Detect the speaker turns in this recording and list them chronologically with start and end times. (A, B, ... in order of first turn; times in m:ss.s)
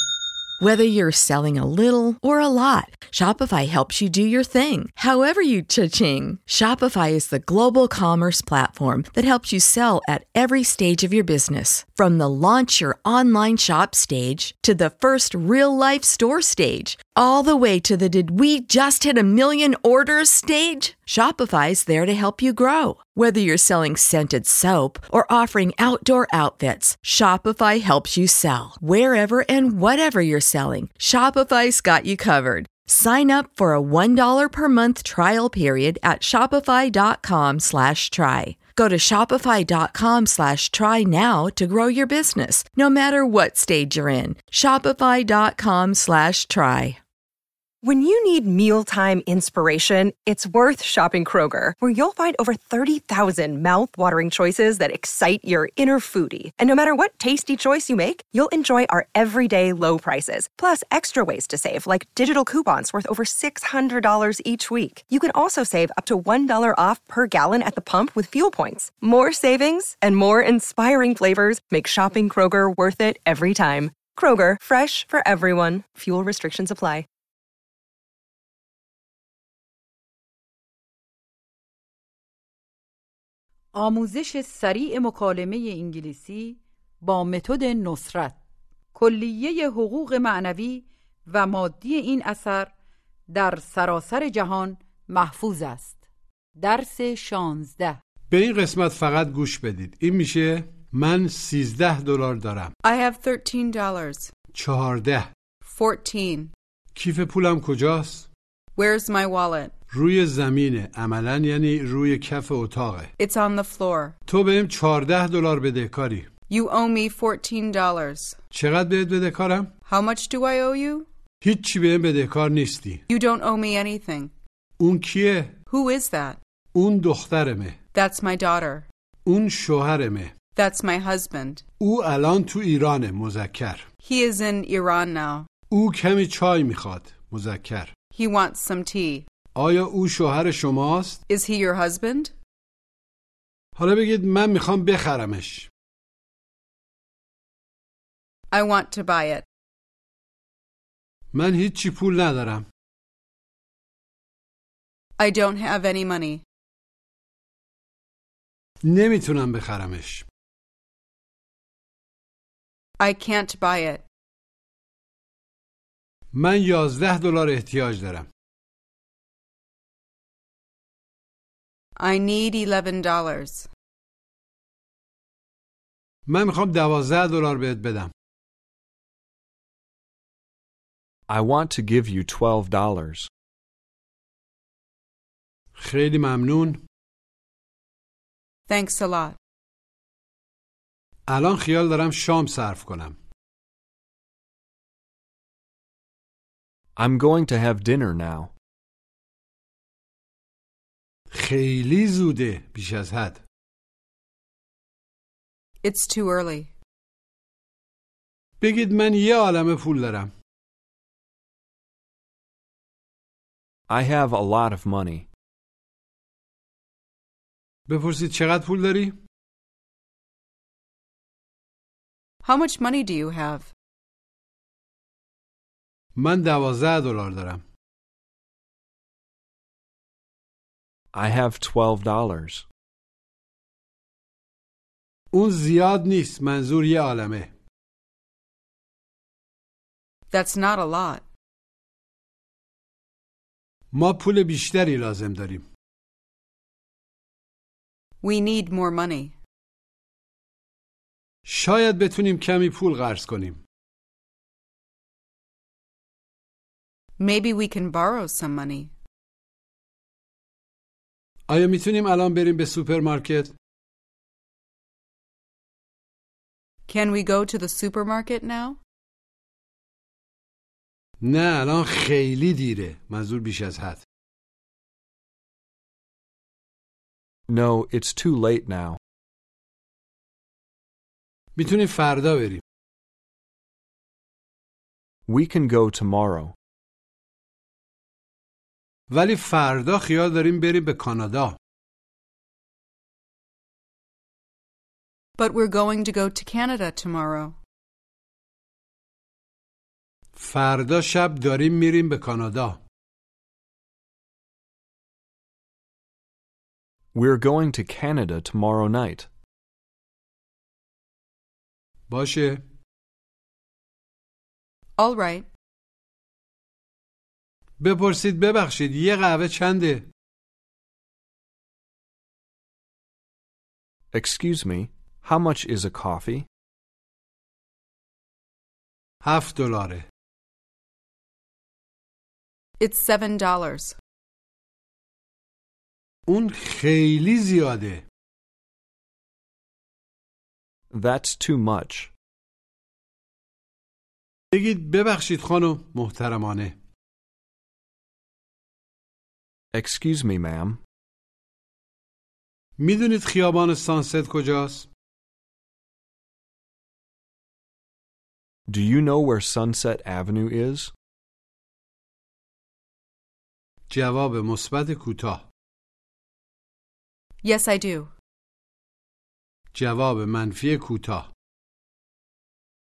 0:00.6-0:47.0 A
0:47.8-1:17.1 B
1:23.7-1:28.4 C
1:28.9-1:32.7 C
1:33.3-1:36.0 C
1:36.6-1:38.0 C
1:38.3-1:42.7 D
1:42.8-1:44.3 E
1:44.5-1:45.3 D
1:45.6-1:46.5 E
1:46.9-1:48.3 D
1:48.8-1:49.8 E
1:49.9-1:53.1 D
1:53.2-1:54.1 E
1:54.3-1:56.3 D
1:56.5-1:58.4 E
1:58.5-1:59.7 D
1:59.9-2:01.1 E
2:01.4-2:03.0 D
2:03.1-2:04.3 E
2:04.8-2:05.6 D
2:05.7-2:06.4 E
2:06.7-2:07.8 D
2:07.9-2:08.8 E
2:09.2-2:10.3 D
2:10.5-2:11.6 E
2:11.8-2:13.8 D
2:14.0-2:15.5 E
2:15.7-2:17.9 D
2:18.1-2:19.2 E
2:19.5-2:21.2 D
2:21.3-2:22.3 E
2:23.8-2:25.7 D
2:28.5-2:29.4 E
2:31.3-2:32.6 D
2:35.2-2:36.4 E
2:38.8-2:40.2 D
2:43.0-2:44.0 E
2:46.3-2:48.3 D
2:52.0-2:53.7 E
2:56.3-2:58.1 D
3:01.3-3:03.3 F
3:05.8-3:06.8 D
3:08.7-3:09.4 E
3:11.3-3:13.2 D
3:17.0-3:18.5 F
3:21.3-3:23.4 D
3:25.8-3:26.7 E
3:28.6-3:30.3 D
3:33.9-3:35.3 F
3:37.9-3:39.2 D
3:42.4-3:43.7 E
3:46.2-3:47.6 D
3:51.1-3:52.6 F
3:55.3-3:57.5 D
4:00.3-4:01.2 E
4:03.9-4:05.6 D
4:08.2-4:09.4 E
4:11.4-4:13.6 D
4:17.2-4:18.9 E
4:21.5-4:23.5 D
4:26.9-4:28.8 E
4:31.2-4:34.0 D
4:37.5-4:39.0 F
4:41.5-4:42.6 D
4:45.3-4:46.6 F
4:49.1-4:51.6 D
4:55.4-4:57.6 E
5:00.3-5:02.8 D
5:07.1-5:09.3 F
5:12.1-5:12.6 D
5:15.0-5:15.4 E
5:17.8-5:20.0 D
5:24.1-5:26.5 F
5:29.2-5:30.0 D
5:32.8-5:33.9 E
5:36.3-5:38.0 D
5:40.9-5:42.1 F
5:44.5-5:46.7 D
5:49.7-5:50.8 F
5:52.8-5:54.9 D
5:58.7-6:00.9 F
6:03.9-6:05.4 D
6:07.4-6:08.1 E
6:09.7-6:11.3 D